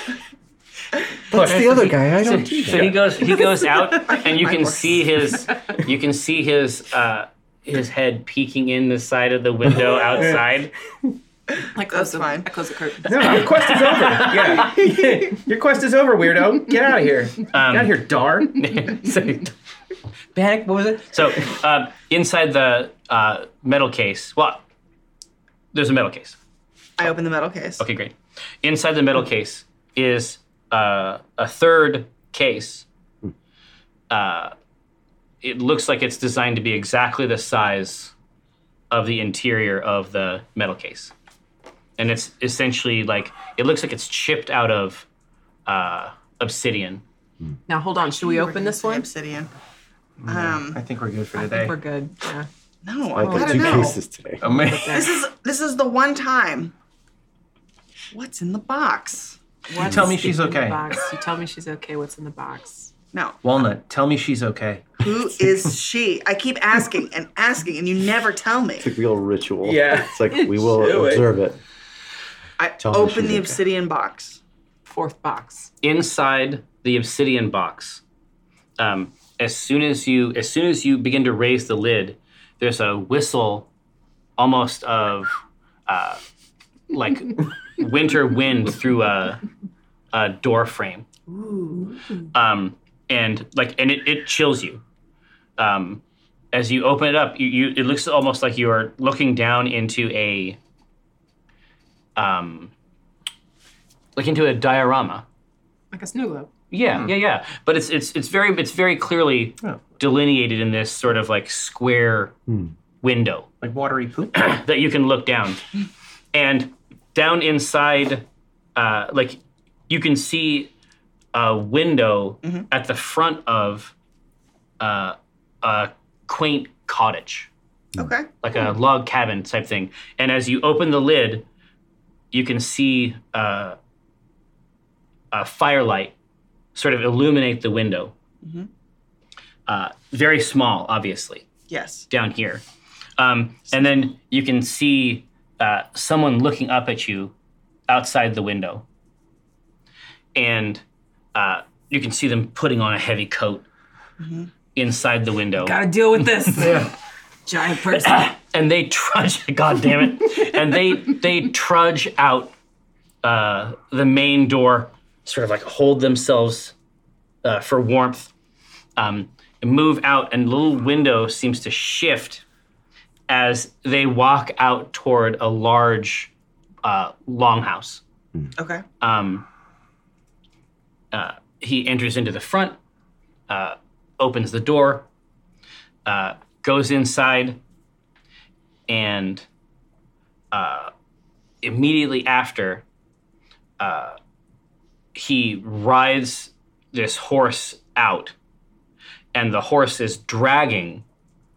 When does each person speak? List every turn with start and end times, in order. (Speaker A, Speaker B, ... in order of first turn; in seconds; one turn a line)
Speaker A: 1.3-3.0
Speaker B: 1.3-1.8
Speaker C: 1.4-10.7
Speaker D: 3.9-5.1
Speaker E: 11.7-13.5
Speaker D: 11.9-12.5
Speaker B: 13.0-18.6
Speaker C: 13.6-14.3
Speaker C: 17.5-19.5
Speaker C: 20.3-24.6
Speaker C: 25.7-26.4
Speaker D: 27.0-27.8
Speaker C: 27.8-32.9
Speaker C: 34.1-34.5
Speaker C: 35.4-38.1
Speaker C: 38.9-41.1
Speaker C: 42.0-45.0
Speaker C: 45.6-47.0
Speaker E: 47.7-49.1
Speaker D: 48.2-49.5
Speaker B: 50.2-51.8
Speaker D: 50.3-50.8
Speaker E: 51.3-52.5
Speaker D: 52.8-54.0
Speaker A: 53.1-54.4
Speaker B: 53.3-53.8
Speaker B: 54.4-55.1
Speaker E: 54.5-55.2
Speaker D: 54.9-56.7
Speaker D: 58.1-59.8
Speaker E: 59.7-62.9
Speaker B: 59.8-61.0
Speaker A: 59.9-60.1
Speaker D: 63.1-63.4
Speaker B: 63.4-64.9
Speaker D: 65.0-68.9
Speaker A: 68.8-71.6
Speaker B: 69.6-71.3
Speaker D: 72.6-74.4
Speaker A: 72.8-73.6
Speaker E: 74.8-75.7
Speaker C: 75.8-78.0
Speaker C: 78.8-83.7
Speaker C: 84.4-86.2
Speaker C: 86.9-89.4
Speaker C: 90.1-91.0
Speaker E: 91.3-92.1
Speaker C: 92.3-94.8
Speaker C: 95.6-100.6
Speaker C: 102.2-102.7
Speaker C: 104.2-105.2
Speaker E: 105.9-106.5
Speaker C: 106.7-112.3
Speaker C: 113.0-113.5
Speaker B: 113.6-114.5
Speaker C: 114.3-115.6
Speaker C: 116.3-118.2
Speaker C: 118.8-120.7
Speaker C: 121.3-123.9
Speaker C: 124.8-127.5
Speaker D: 128.0-128.3
Speaker C: 128.4-131.4
Speaker C: 132.3-133.8
Speaker C: 135.3-136.1
Speaker C: 136.7-138.1
Speaker D: 138.4-138.7
Speaker C: 139.7-141.4
Speaker D: 141.7-142.1
Speaker C: 142.1-142.6
Speaker C: 143.2-147.3
Speaker C: 147.9-148.8
Speaker C: 150.3-150.8
Speaker C: 151.3-153.7
Speaker D: 154.2-154.5
Speaker C: 154.7-155.8
Speaker E: 155.6-156.9
Speaker B: 156.6-156.9
Speaker E: 157.4-158.3
Speaker C: 158.1-162.5
Speaker C: 163.2-166.7
Speaker C: 167.4-168.3
Speaker C: 168.9-172.4
Speaker C: 173.3-176.3
Speaker C: 176.8-178.0
Speaker D: 178.6-178.8
Speaker C: 179.0-179.4
Speaker C: 181.1-182.8
Speaker C: 183.5-185.1
Speaker C: 186.1-187.6
Speaker C: 188.9-189.4
Speaker C: 190.5-190.9
Speaker C: 191.6-192.8
Speaker C: 193.8-194.2
Speaker C: 195.1-198.3
Speaker C: 199.3-201.0